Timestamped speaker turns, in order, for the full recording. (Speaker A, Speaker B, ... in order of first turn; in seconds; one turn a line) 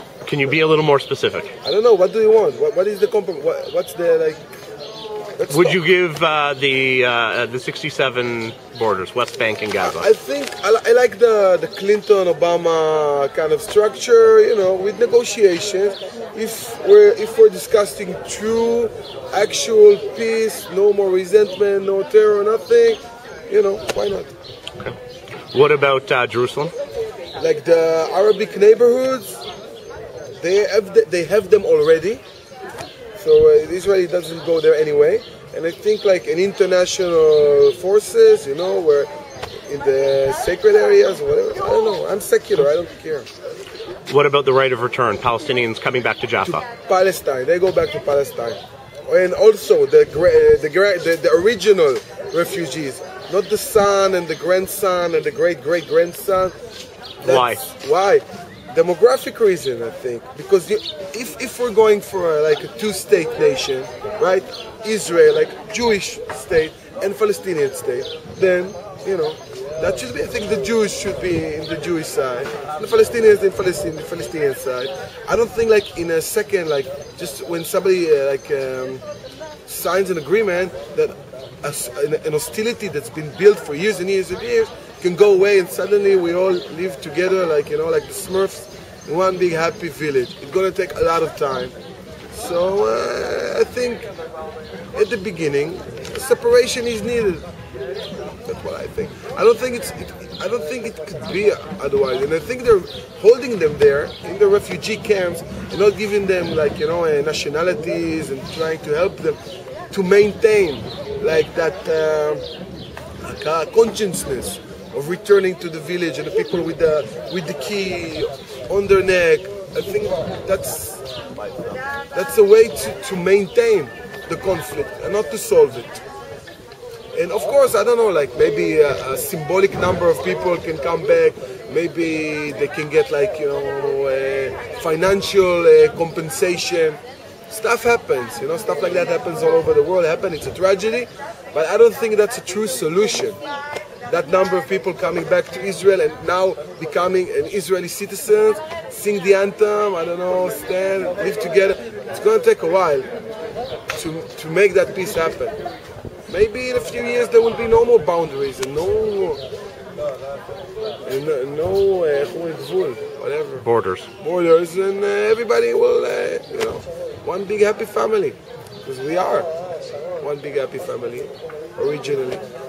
Speaker A: 0.2-1.5
Speaker B: 1.6-4.4
Speaker B: 5.3-5.8
Speaker A: 5.5-10.1
Speaker B: 9.8-24.3
Speaker A: 25.5-26.7
Speaker B: 27.4-29.4
Speaker B: 30.4-32.2
Speaker B: 33.2-39.1
Speaker B: 39.7-43.3
Speaker A: 44.1-46.6
Speaker B: 46.4-56.5
Speaker B: 57.2-79.0
Speaker A: 57.2-57.6
Speaker B: 79.7-91.7
Speaker B: 92.3-94.1
Speaker B: 94.9-97.5
Speaker B: 98.4-109.4
Speaker B: 109.9-112.4
Speaker B: 113.2-121.0
Speaker B: 122.1-126.0
Speaker B: 127.1-143.4
Speaker B: 144.1-153.1
Speaker B: 153.9-155.6
Speaker B: 156.3-159.4
Speaker B: 161.0-163.7
Speaker A: 163.6-164.1
Speaker B: 164.2-169.5
Speaker B: 170.2-172.4